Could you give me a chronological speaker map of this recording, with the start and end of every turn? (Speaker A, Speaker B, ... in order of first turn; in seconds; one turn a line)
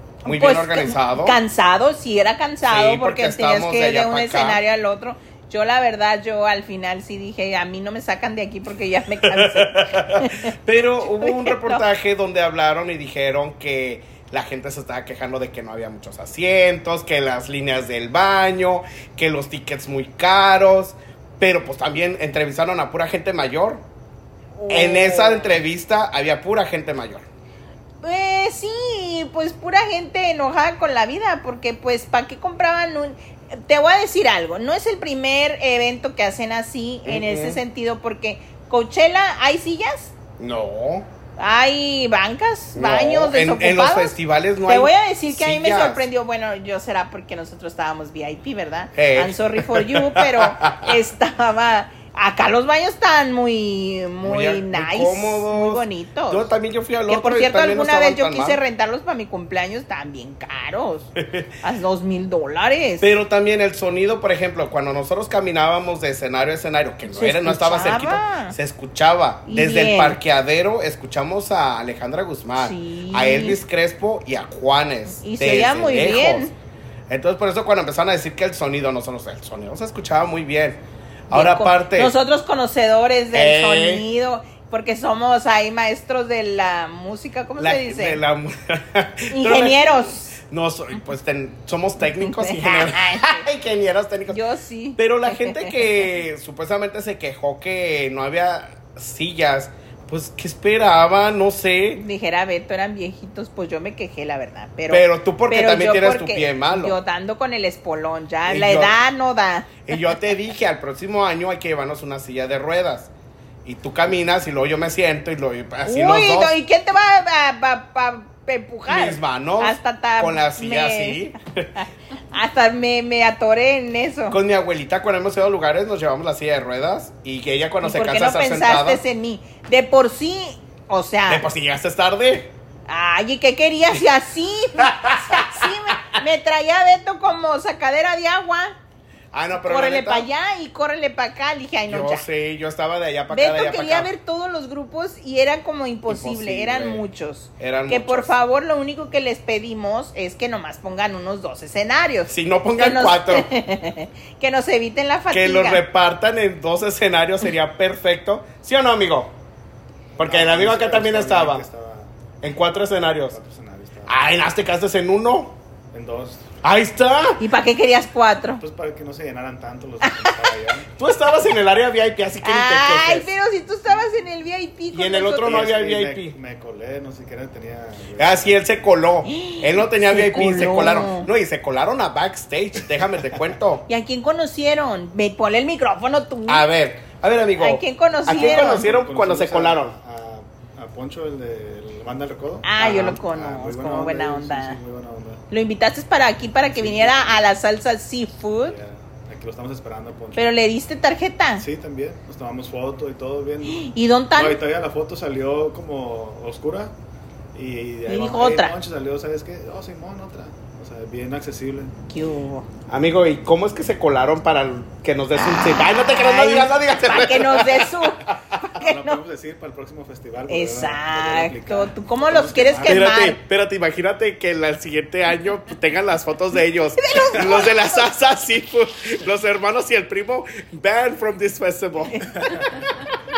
Speaker A: 0.2-11.8
Speaker B: 0.2-1.4
Speaker B: 2.6-4.6
Speaker B: 9.2-23.8
Speaker A: 24.6-25.6
Speaker B: 24.7-27.2
Speaker A: 28.0-40.1
Speaker B: 37.0-37.6
Speaker B: 40.4-41.1
Speaker A: 41.4-56.5
Speaker B: 42.8-46.1
Speaker B: 48.9-51.0
Speaker B: 54.2-58.6
Speaker A: 57.1-63.1
Speaker B: 61.2-61.5
Speaker B: 63.0-76.5
Speaker A: 67.1-68.5
Speaker A: 69.5-70.2
Speaker A: 72.6-73.6
Speaker A: 75.2-76.5
Speaker B: 77.1-82.1
Speaker A: 81.3-88.2
Speaker B: 83.3-84.0
Speaker B: 87.6-94.4
Speaker A: 89.3-90.4
Speaker A: 92.2-93.5
Speaker A: 94.3-95.8
Speaker B: 95.0-102.0
Speaker A: 102.0-109.8
Speaker B: 104.9-107.0
Speaker B: 108.5-109.0
Speaker B: 109.9-113.1
Speaker B: 113.7-116.5
Speaker A: 115.8-124.4
Speaker B: 118.9-121.7
Speaker B: 124.3-129.0
Speaker A: 127.8-131.5
Speaker B: 131.3-132.5
Speaker A: 132.9-138.8
Speaker B: 134.8-136.2
Speaker B: 139.3-140.3
Speaker A: 139.6-142.2
Speaker B: 141.8-144.1
Speaker A: 143.3-155.8
Speaker B: 146.1-147.0
Speaker B: 147.6-148.4
Speaker B: 152.3-153.5
Speaker B: 155.3-159.3
Speaker B: 160.2-161.6
Speaker C: 160.2-162.1
Speaker B: 162.4-163.4
Speaker C: 163.3-164.2
Speaker B: 164.1-165.6
Speaker C: 165.9-166.5
Speaker B: 166.6-167.4
Speaker A: 167.4-168.6
Speaker C: 168.6-170.9
Speaker A: 170.0-170.5
Speaker B: 171.0-173.3
Speaker A: 172.4-175.6
Speaker B: 174.9-176.4
Speaker C: 175.4-178.5
Speaker B: 178.2-183.8
Speaker A: 179.3-181.3
Speaker A: 183.9-186.7
Speaker B: 186.5-189.9
Speaker A: 187.6-188.9
Speaker C: 188.3-195.4
Speaker A: 192.7-194.8
Speaker A: 195.5-198.8
Speaker C: 196.7-197.5
Speaker C: 198.6-200.5
Speaker A: 200.3-201.6
Speaker C: 201.6-206.9
Speaker A: 203.7-204.6
Speaker C: 207.5-211.9
Speaker A: 208.1-208.7
Speaker A: 212.1-212.7
Speaker B: 212.9-218.6
Speaker A: 215.4-219.2
Speaker C: 218.8-223.0
Speaker A: 220.5-223.4
Speaker B: 222.8-232.3
Speaker A: 227.0-228.0
Speaker C: 232.3-232.8